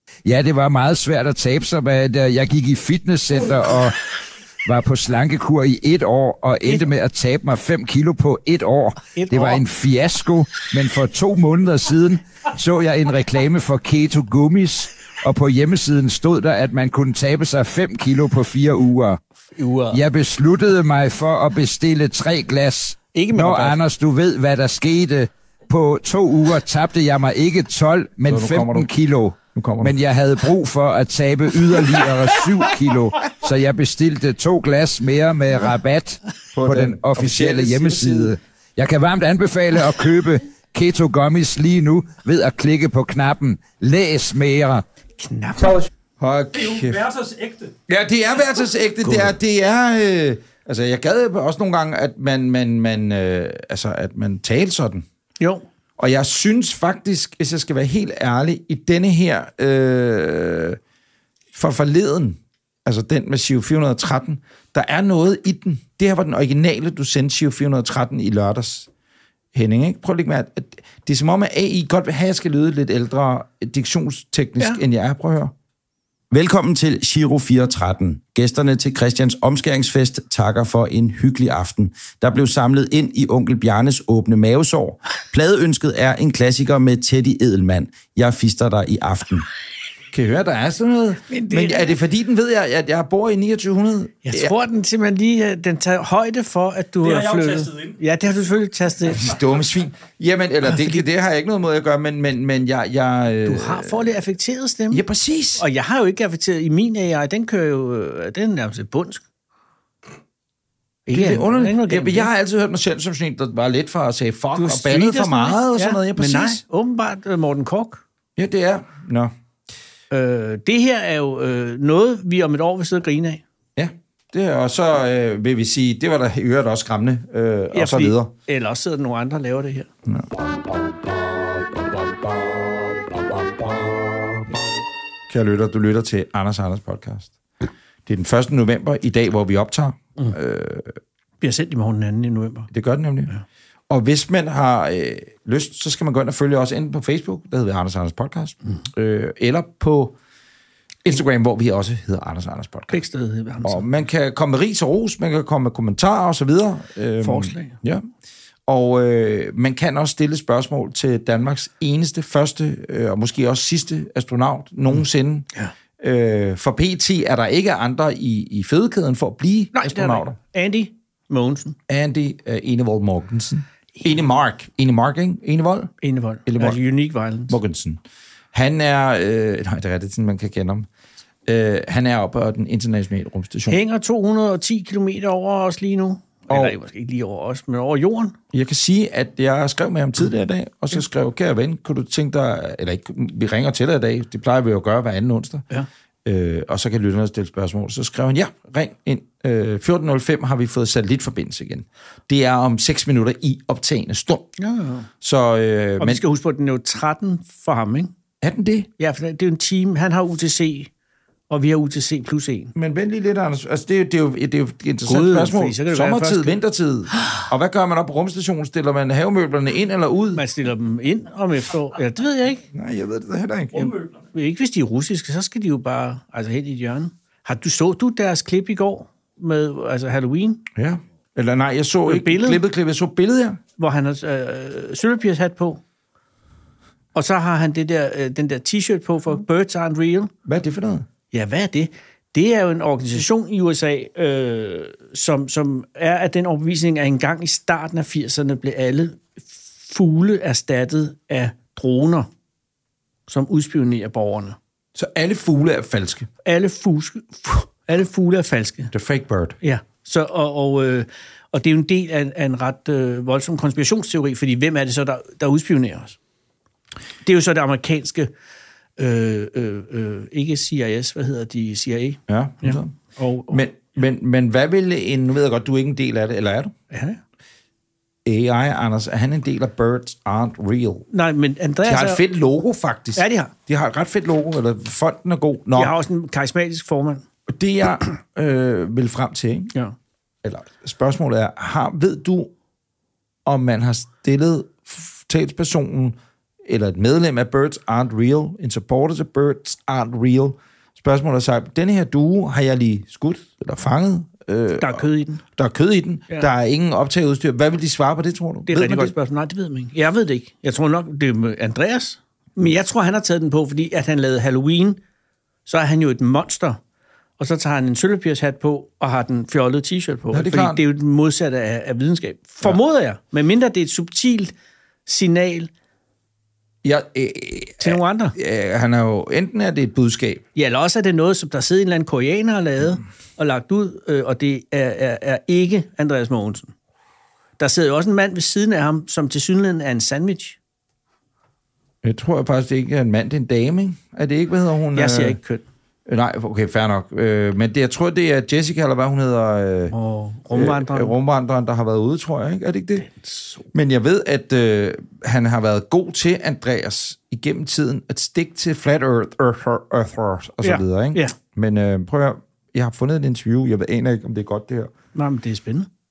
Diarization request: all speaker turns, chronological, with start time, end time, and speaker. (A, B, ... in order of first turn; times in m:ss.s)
0:00.2-0:04.0 A
0:04.6-0:19.2 A
0:09.1-0:09.6 B
0:19.6-0:20.0 B
0:19.9-0:44.8 A
0:23.1-0:23.8 B
0:28.2-0:28.9 C
0:29.5-0:30.0 C
0:36.5-0:38.4 C
0:45.2-0:45.9 B
0:46.2-0:47.0 C
0:46.5-0:47.7 D
0:47.9-0:55.1 C
0:49.0-0:49.3 B
0:56.0-1:00.8 C
1:01.5-1:08.9 C
1:09.5-1:15.5 C
1:16.3-1:29.5 E
1:30.1-1:34.5 C
1:31.3-1:31.9 B
1:34.2-1:39.3 B
1:37.0-1:38.0 D
1:39.1-1:44.1 C
1:40.7-1:41.0 B
1:43.4-1:45.0 B
1:44.9-1:45.6 C
1:45.6-1:49.2 B
1:51.1-1:52.3 B
1:51.1-1:56.6 C
1:54.5-1:58.0 B
1:58.4-1:59.3 C
2:00.1-2:03.4 B
2:03.8-2:08.3 C
2:07.7-2:09.9 B
2:10.1-2:14.0 C
2:15.3-2:17.3 C
2:18.0-2:21.0 C
2:21.4-2:22.7 B
2:22.7-2:23.3 C
2:23.9-2:30.2 C
2:31.0-2:33.0 C
2:32.9-2:33.8 B
2:33.6-2:38.0 C
2:37.2-2:37.8 B
2:38.7-2:50.4 C
2:49.7-2:51.8 B
2:51.9-2:55.9 C
2:56.0-2:57.6 B
2:56.5-2:56.8 C
2:57.5-2:58.0 C
2:58.5-3:00.9 C
3:01.5-3:03.8 C
3:03.7-3:08.3 B
3:06.5-3:06.8 C
3:08.5-3:15.6 C
3:16.2-3:24.5 C
3:24.6-3:25.1 B
3:25.2-3:26.2 C
3:26.0-3:28.1 B
3:28.4-3:28.9 C
3:29.0-3:30.9 B
3:31.5-3:32.7 B
3:32.8-3:40.4 C
3:35.0-3:36.6 B
3:40.3-3:42.6 B
3:42.7-3:43.9 C
3:43.8-3:50.6 B
3:50.8-3:53.6 C
3:52.0-3:52.6 B
3:53.8-3:55.8 B
3:57.2-4:00.3 B
4:00.5-4:01.0 C
4:01.3-4:12.3 B
4:13.3-4:14.6 B
4:15.0-4:16.3 C
4:16.4-4:18.9 B
4:18.9-4:19.6 C
4:19.6-4:26.2 B
4:27.2-4:28.3 B
4:29.0-4:33.6 B
4:32.3-4:32.9 C
4:33.5-4:36.7 C
4:36.9-4:37.2 B
4:38.2-4:41.1 C
4:41.1-4:42.2 B
4:41.8-4:45.9 C
4:43.2-4:43.5 B
4:45.8-4:47.2 B
4:47.5-4:49.7 C
4:50.4-4:52.5 C
4:53.5-5:09.1 C
5:04.8-5:05.4 B
5:08.7-5:15.0 B
5:15.7-5:16.8 B
5:17.4-5:24.5 B
5:20.3-5:20.8 C
5:25.0-5:25.7 B
5:26.8-5:30.4 C
5:27.8-5:28.4 B
5:30.5-5:36.7 B
5:37.6-5:40.6 B
5:42.0-5:45.4 C
5:44.9-5:45.6 B
5:46.1-5:49.9 C
5:49.9-5:51.2 B
5:50.5-5:53.0 C
5:53.0-5:53.7 B
5:53.7-6:04.9 C
6:00.6-6:01.3 B
6:05.2-6:05.9 B